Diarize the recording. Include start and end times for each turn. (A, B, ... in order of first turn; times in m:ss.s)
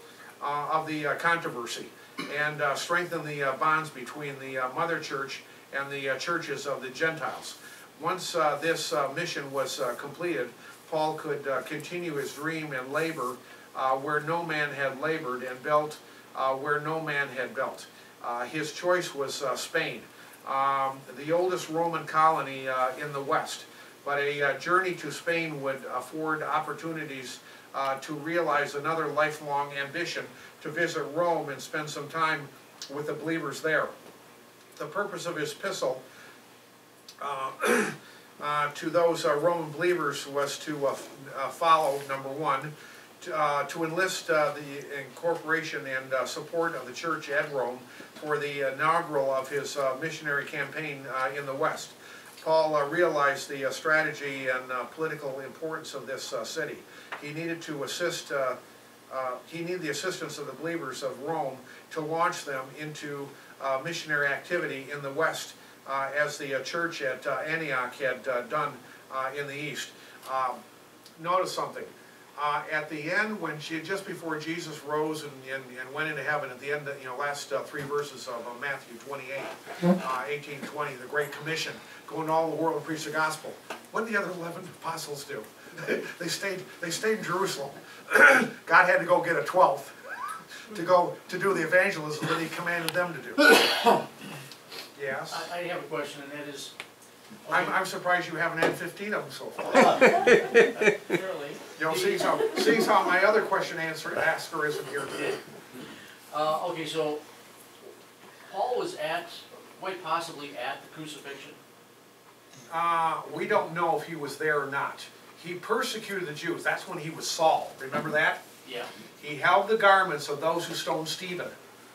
0:00.4-0:33.9 A
0:34.8-0:36.0 A
0:37.2-0:58.6 A
0:59.1-1:10.6 A
1:11.2-1:33.6 A
1:34.9-1:35.5 A
1:35.3-1:36.7 B
1:37.4-1:37.7 B
1:37.5-1:40.3 A
1:40.0-1:42.6 B
1:41.8-1:45.4 A
1:46.3-1:47.2 B
1:48.4-1:51.6 B
1:52.7-1:58.4 A
1:58.6-1:58.9 B
1:59.2-2:01.6 A